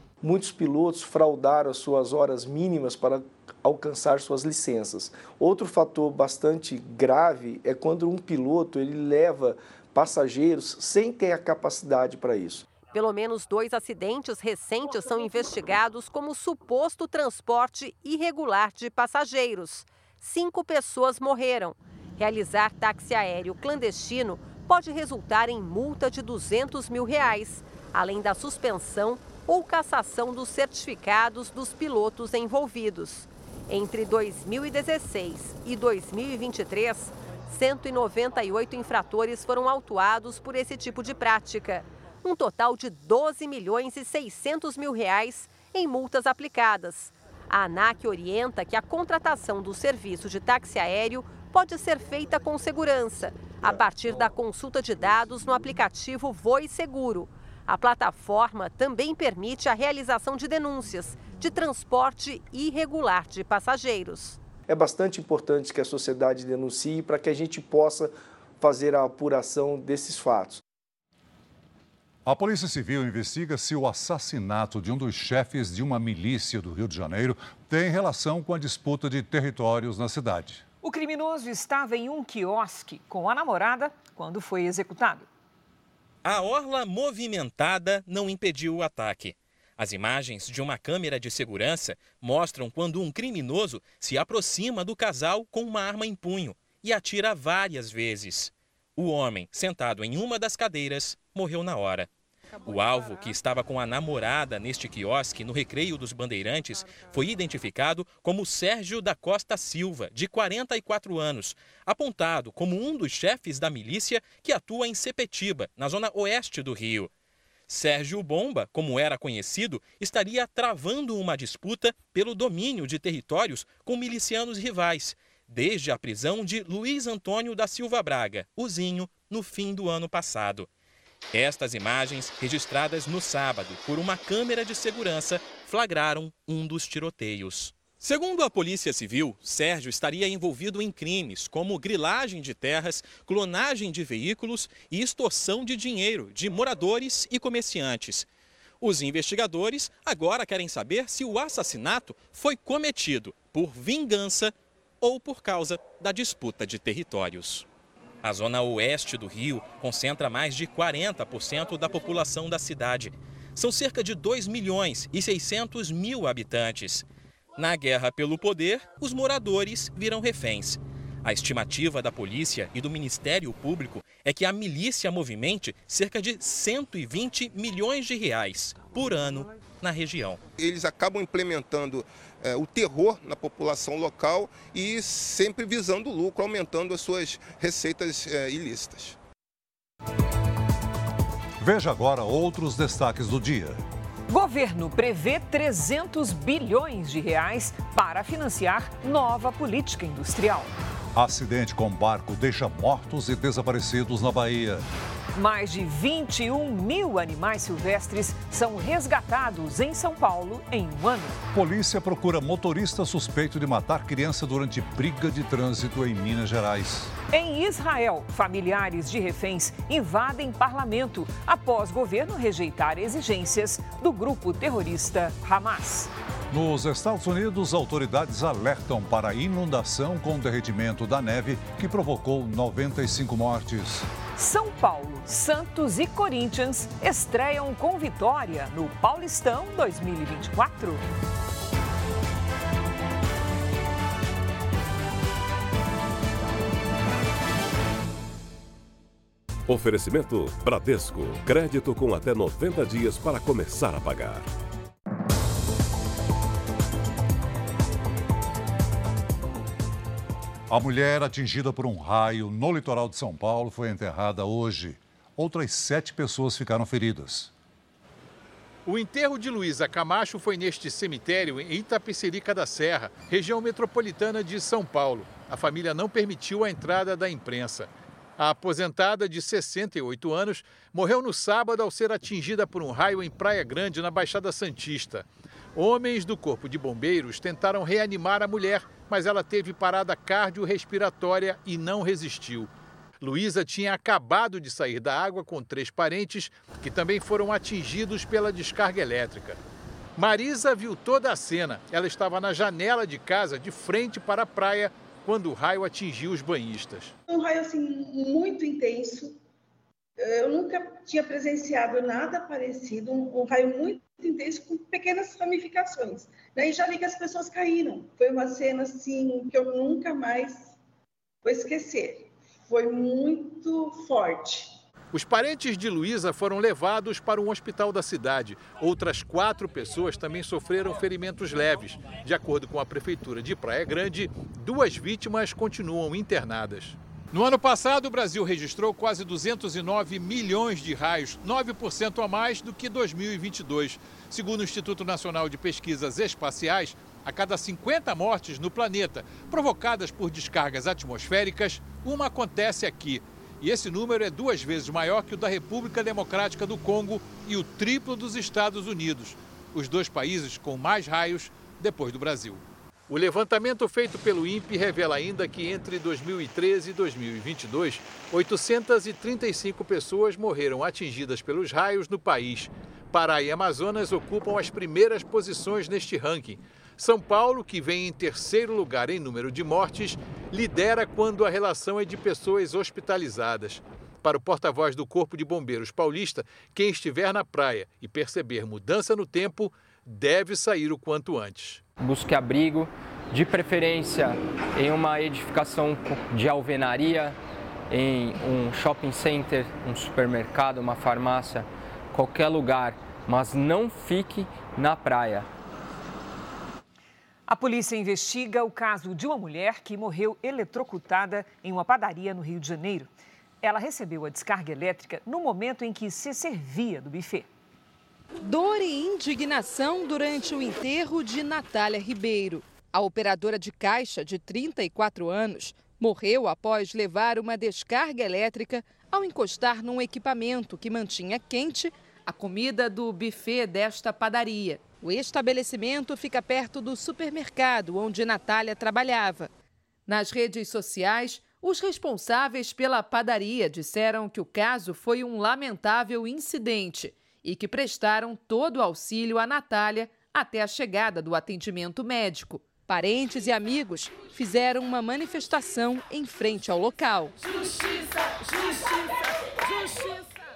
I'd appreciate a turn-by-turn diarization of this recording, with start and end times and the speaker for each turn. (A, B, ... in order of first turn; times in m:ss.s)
0:00.2-0:12.7 A
0:12.9-1:04.4 B
1:04.7-1:10.6 A
1:12.3-1:20.6 C
1:20.8-1:25.3 D
1:26.2-1:42.1 E
1:42.6-1:57.1 E
1:57.7-2:10.7 E
2:11.3-2:28.3 E
2:28.8-2:37.7 E
2:38.2-3:00.4 E
3:00.6-3:09.2 F
3:11.6-3:13.8 C
3:14.3-3:20.7 D
3:21.2-3:24.8 C
3:25.4-3:31.4 D
3:31.5-3:37.1 C
3:37.3-3:46.1 D
3:46.5-3:54.1 C
3:54.4-4:01.0 D
4:09.7-4:14.5 G
4:20.7-4:27.5 C
4:28.8-4:52.7 H
4:53.2-4:59.6 H
5:00.2-5:07.1 H
5:07.3-5:09.4 I
5:10.2-5:20.8 I
5:21.4-5:24.8 I
5:25.1-6:31.8 H
6:32.0-6:37.4 J
6:37.9-6:45.5 J
6:47.5-6:53.1 D
6:53.6-6:57.5 D
6:58.4-7:19.5 K
7:20.1-7:37.4 K